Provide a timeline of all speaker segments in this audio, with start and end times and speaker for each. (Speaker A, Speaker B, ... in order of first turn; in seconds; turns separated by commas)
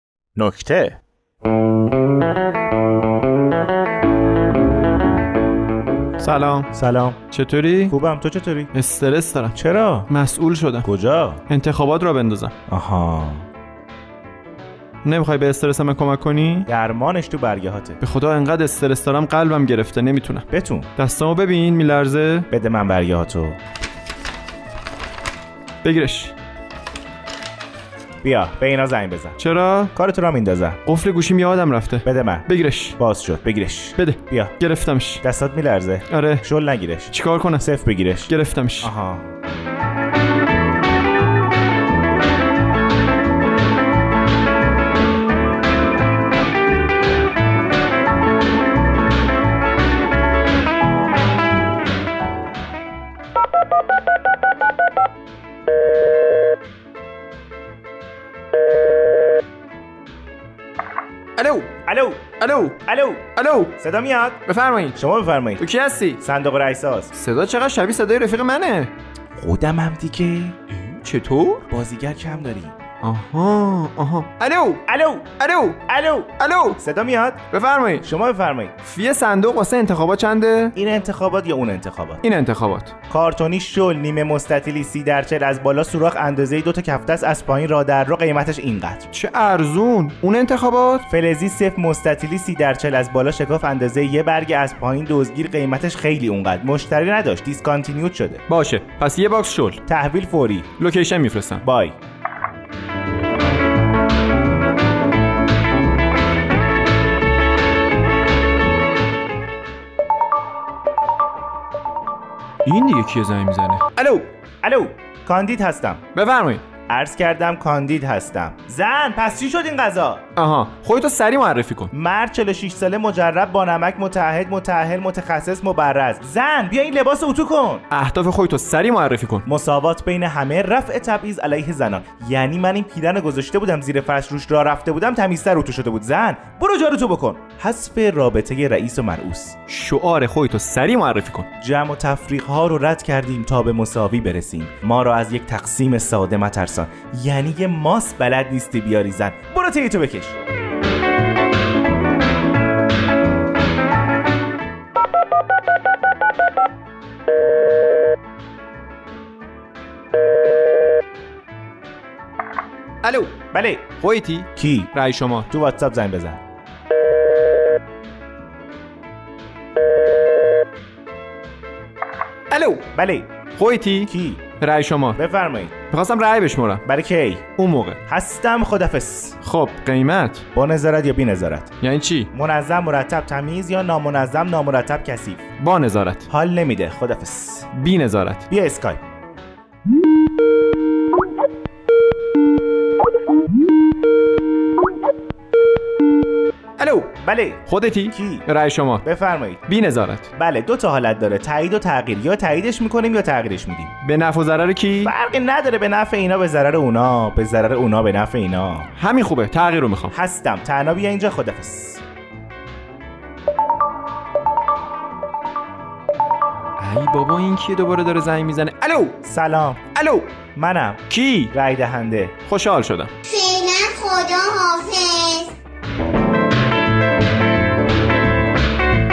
Speaker A: 0.4-1.0, Speaker B: 6.2-6.7, Speaker A: 6.7-7.2, Speaker B: 7.3-7.9, Speaker A: 7.9-8.7, Speaker B: 8.7-9.6, Speaker A: 9.6-10.1, Speaker B: 10.1-10.9, Speaker A: 10.8-11.4, Speaker B: 11.5-12.6, Speaker A: 12.7-13.4, Speaker B: 15.0-16.7, Speaker A: 16.7-18.0, Speaker B: 18.0-20.5, Speaker A: 20.5-20.9, Speaker B: 21.0-22.5, Speaker A: 22.5-23.6, Speaker B: 25.8-26.3, Speaker A: 28.2-29.4, Speaker B: 29.4-29.9, Speaker A: 29.9-30.8, Speaker B: 30.9-33.0, Speaker A: 32.0-32.5, Speaker A: 33.0-34.5, Speaker B: 34.0-35.2, Speaker A: 35.2-39.3, Speaker B: 36.1-36.4, Speaker B: 37.1-37.7, Speaker B: 38.3-38.9, Speaker B: 61.4-61.8, Speaker A: 61.9-62.3, Speaker B: 62.4-62.8, Speaker A: 62.8-64.4, Speaker B: 63.4-63.8, Speaker B: 64.5-65.0, Speaker A: 65.0-67.1, Speaker B: 65.6-66.2, Speaker B: 67.1-68.9, Speaker A: 69.4-70.6, Speaker B: 70.7-71.7, Speaker A: 71.7-72.8, Speaker B: 73.0-74.8, Speaker A: 74.9-75.3, Speaker B: 75.4-76.8, Speaker A: 75.8-77.4, Speaker B: 77.5-78.1, Speaker A: 78.0-78.8, Speaker B: 78.8-80.7, Speaker A: 80.7-82.2, Speaker B: 82.2-82.9, Speaker A: 83.1-89.1, Speaker B: 89.1-91.1, Speaker A: 91.1-98.4, Speaker B: 98.5-99.8, Speaker A: 99.9-100.7, Speaker B: 100.8-101.6, Speaker A: 101.6-102.0, Speaker B: 112.7-114.3, Speaker A: 114.6-116.0, Speaker B: 116.2-116.6, Speaker A: 116.9-120.2, Speaker B: 120.4-121.9, Speaker A: 121.9-127.8, Speaker B: 127.9-129.4, Speaker A: 129.4-139.6, Speaker B: 139.7-141.5, Speaker A: 141.6-150.3, Speaker B: 163.0-163.4, Speaker A: 163.5-163.9, Speaker B: 164.0-165.5, Speaker A: 164.6-164.9, Speaker A: 165.5-166.4, Speaker B: 172.5-172.9, Speaker A: 172.8-173.3, Speaker B: 173.6-175.2, Speaker A: 174.1-174.4, Speaker A: 175.2-175.7, Speaker B: 175.9-176.8, Speaker A: 176.8-177.5, Speaker B: 177.6-178.0, Speaker A: 178.1-179.4, Speaker B: 179.4-180.4, Speaker A: 180.5-181.7, Speaker B: 181.8-182.3, Speaker A: 182.3-185.4, Speaker B: 185.6-186.3, Speaker A: 186.3-187.7, Speaker B: 187.7-188.5, Speaker A: 188.5-189.0, Speaker A: 197.0-198.5, Speaker B: 197.7-199.1, Speaker A: 199.0-199.6, Speaker B: 199.7-200.3, Speaker A: 200.3-203.9, Speaker B: 204.0-205.1, Speaker A: 205.0-208.9, Speaker B: 208.9-210.1, Speaker A: 210.1-212.0, Speaker B: 216.8-219.2, Speaker A: 219.2-219.9, Speaker B: 219.9-220.3, Speaker A: 220.5-222.4, Speaker B: 221.1-221.5, Speaker B: 222.5-223.1, Speaker C: 223.3-225.6